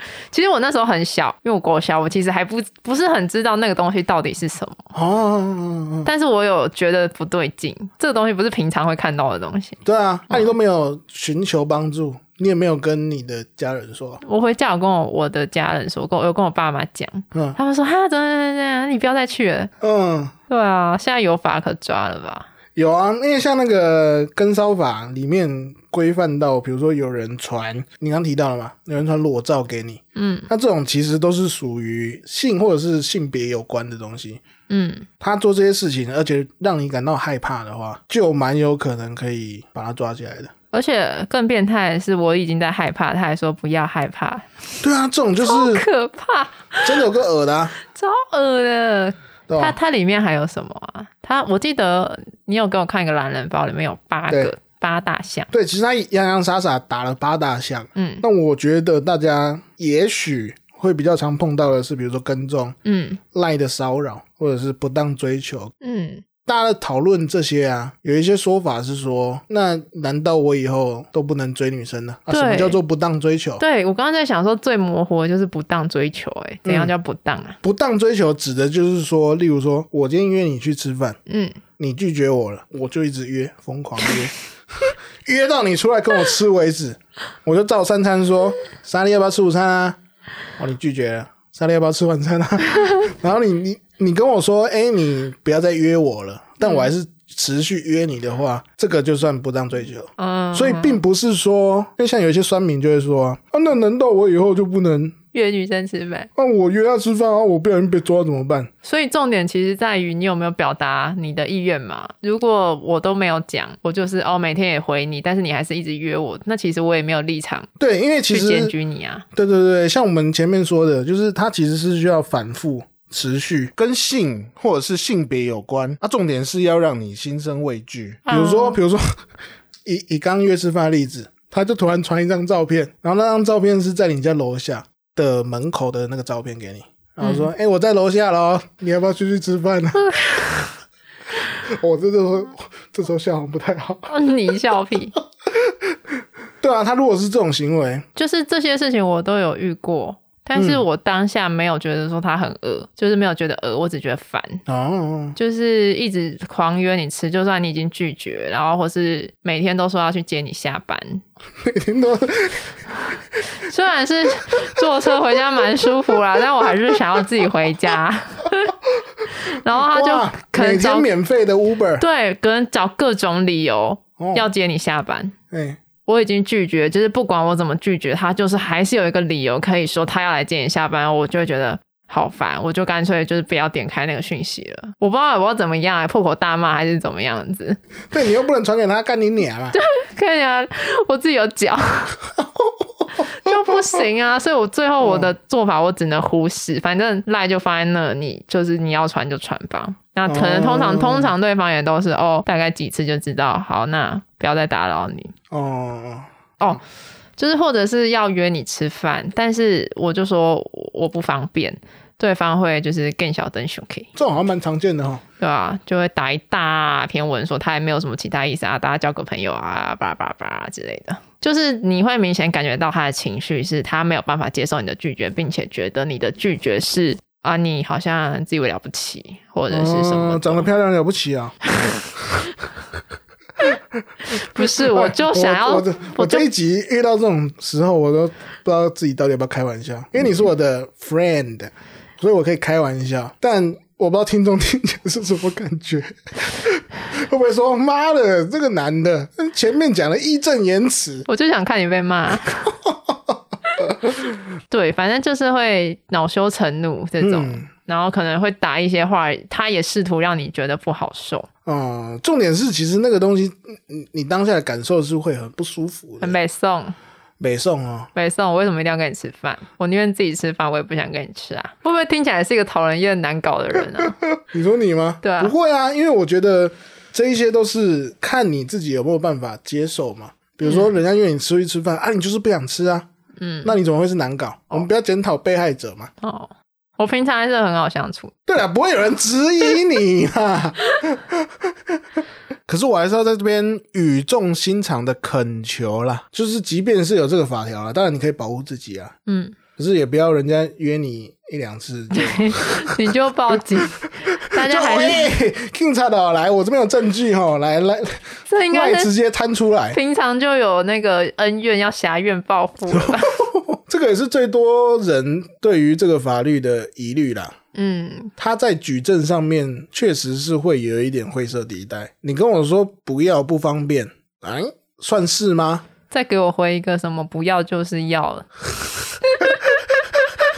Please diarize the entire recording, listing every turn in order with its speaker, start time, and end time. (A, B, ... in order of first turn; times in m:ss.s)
0:00.3-0:04.8 A
0:04.9-0:06.1 B
0:06.0-0:09.8 A
0:09.8-0:14.2 B
0:14.2-0:19.7 A
0:19.8-0:20.3 B
0:20.5-0:22.5 A
0:22.7-0:34.4 B
0:30.2-0:30.5 A
0:34.7-0:35.1 A
0:35.2-0:40.5 B
0:40.7-0:44.5 A
0:44.8-0:45.8 B
0:45.4-0:47.1 A
0:46.8-0:47.7 B
0:47.8-0:55.5 A
0:49.5-0:49.8 B
0:55.5-1:02.8 B
0:57.9-0:58.2 A
1:02.8-1:03.2 A
1:03.3-1:05.7 B
1:05.8-1:06.2 A
1:06.4-1:13.6 B
1:12.3-1:12.8 A
1:13.6-1:17.6 A
1:16.6-1:16.9 B
1:17.6-1:21.2 B
1:21.3-1:21.6 A
1:21.8-1:30.0 B
1:30.6-1:45.2 B
1:36.6-1:36.9 A
1:40.2-1:41.0 A
1:45.3-1:46.3 A
1:46.4-1:48.7 B
1:48.8-1:57.7 A
1:57.8-1:58.7 B
1:58.3-1:59.2 A
1:59.3-2:09.0 B
2:08.3-2:08.8 A
2:09.8-2:20.7 B
2:17.2-2:17.5 A
2:20.2-2:20.6 A
2:21.5-2:24.2 B
2:24.1-2:25.1 A
2:26.6-2:28.0 B
2:28.2-2:34.6 A
2:30.5-2:30.8 B
2:34.6-2:35.4 B
2:35.4-2:41.2 A
2:41.6-2:42.7 B
2:43.5-2:48.7 A
2:49.4-2:51.1 A
2:49.8-2:52.0 B
2:52.0-2:55.3 A
2:54.2-2:54.4 B
2:55.5-2:55.8 B
2:56.0-3:07.8 A
3:08.1-3:09.8 B
3:09.7-3:12.2 A
3:12.4-3:13.5 B
3:13.2-3:25.3 A
3:15.0-3:15.3 B
3:20.3-3:21.3 B
3:25.5-3:26.8 B
3:27.4-3:34.1 A
3:34.1-3:35.2 B
3:35.4-3:50.7 A
3:49.7-3:51.6 B
3:53.6-4:11.3 B
3:54.3-3:56.5 A
4:11.3-4:12.7 A
4:12.9-4:14.2 B
4:14.7-4:21.5 A
4:17.2-4:17.7 B
4:21.6-4:26.4 B
4:26.2-4:27.0 A
4:27.4-4:28.1 B
4:28.1-4:34.2 A
4:34.3-4:43.1 B
4:35.2-4:35.5 A
4:43.4-4:43.7 A
4:43.6-4:46.1 B
4:46.2-4:48.3 A
4:48.4-4:51.7 B
4:52.7-4:59.2 B
4:59.3-4:59.6 A
4:59.8-5:03.1 B
5:02.1-5:05.3 A
5:03.8-5:10.0 B
5:08.5-5:09.1 A
5:09.9-5:13.3 A
5:12.9-5:17.6 B
5:17.7-5:18.3 A
5:18.4-5:25.8 B
5:26.1-5:28.5 A
5:29.2-5:29.6 A
5:29.4-5:29.9 B